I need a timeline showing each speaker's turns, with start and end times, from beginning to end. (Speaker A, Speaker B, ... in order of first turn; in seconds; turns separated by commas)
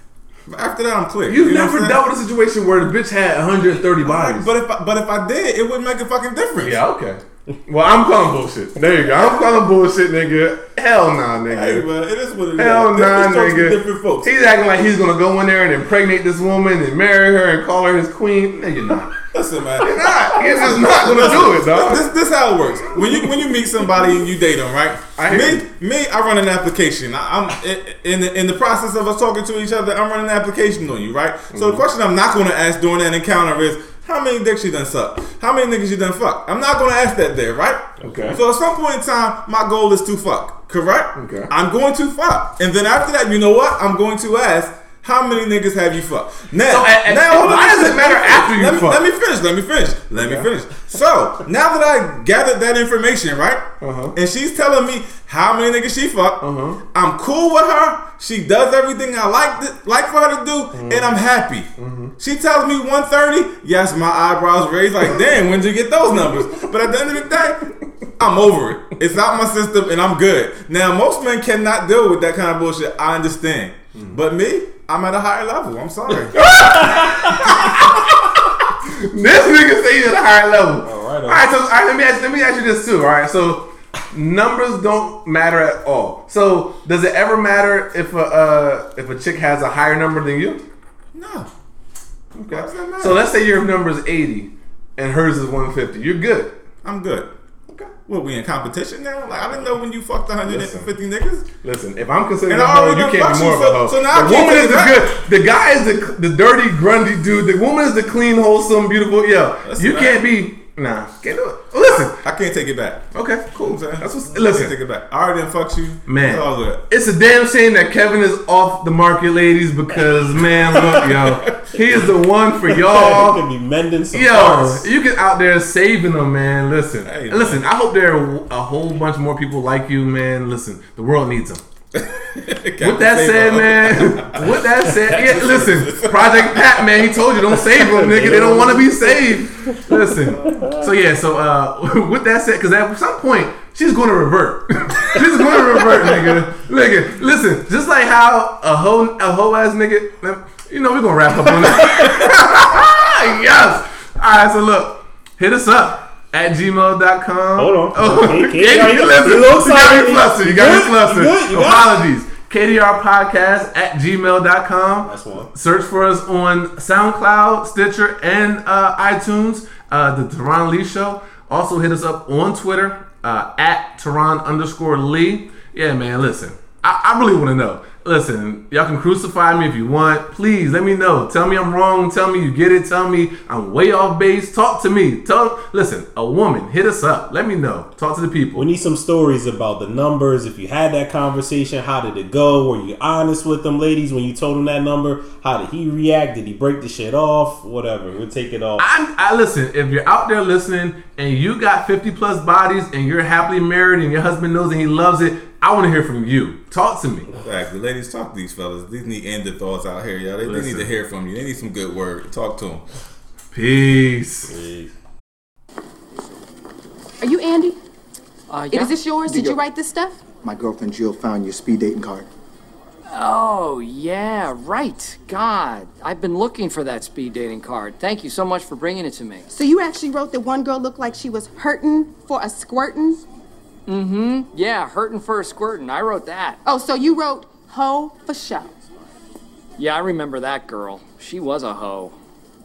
Speaker A: 0.5-2.0, Speaker B: 1.3-4.5, Speaker A: 4.0-6.8, Speaker B: 6.6-11.9, Speaker A: 11.5-14.3, Speaker B: 12.6-19.2, Speaker A: 19.3-56.4, Speaker B: 19.8-22.1, Speaker B: 25.2-25.6, Speaker B: 31.5-31.8, Speaker B: 38.0-38.4, Speaker B: 41.2-41.5, Speaker B: 46.7-49.0, Speaker B: 50.2-50.5, Speaker B: 53.8-54.1, Speaker B: 56.4-56.8, Speaker A: 56.9-77.8, Speaker B: 60.7-61.2, Speaker B: 61.8-62.1, Speaker B: 76.3-90.6, Speaker C: 76.9-77.3, Speaker C: 80.8-81.4, Speaker A: 91.1-91.5, Speaker B: 92.3-96.5, Speaker A: 92.5-93.2, Speaker A: 96.8-97.3, Speaker A: 98.1-101.5, Speaker B: 100.5-100.9, Speaker B: 101.6-112.2, Speaker A: 102.5-105.1, Speaker A: 109.6-110.2, Speaker A: 112.2-116.8, Speaker B: 113.1-114.7, Speaker B: 116.1-123.5, Speaker A: 120.7-121.8, Speaker C: 122.8-124.9, Speaker B: 124.1-131.6, Speaker A: 127.0-127.6, Speaker A: 131.9-137.4, Speaker B: 132.8-188.7, Speaker C: 138.0-139.8, Speaker C: 140.4-140.8, Speaker A: 145.9-146.4, Speaker C: 157.6-161.9, Speaker C: 165.0-165.5, Speaker C: 188.6-198.8, Speaker B: 198.8-207.3, Speaker A: 207.4-212.8, Speaker B: 210.4-210.9, Speaker B: 213.5-214.5, Speaker C: 214.5-214.9, Speaker D: 217.2-217.8, Speaker E: 218.5-218.9, Speaker D: 218.7-220.2, Speaker F: 219.3-219.6, Speaker F: 220.4-222.3, Speaker E: 223.1-229.5, Speaker D: 229.5-233.2, Speaker E: 233.9-236.6, Speaker D: 236.7-238.8, Speaker E: 239.8-242.2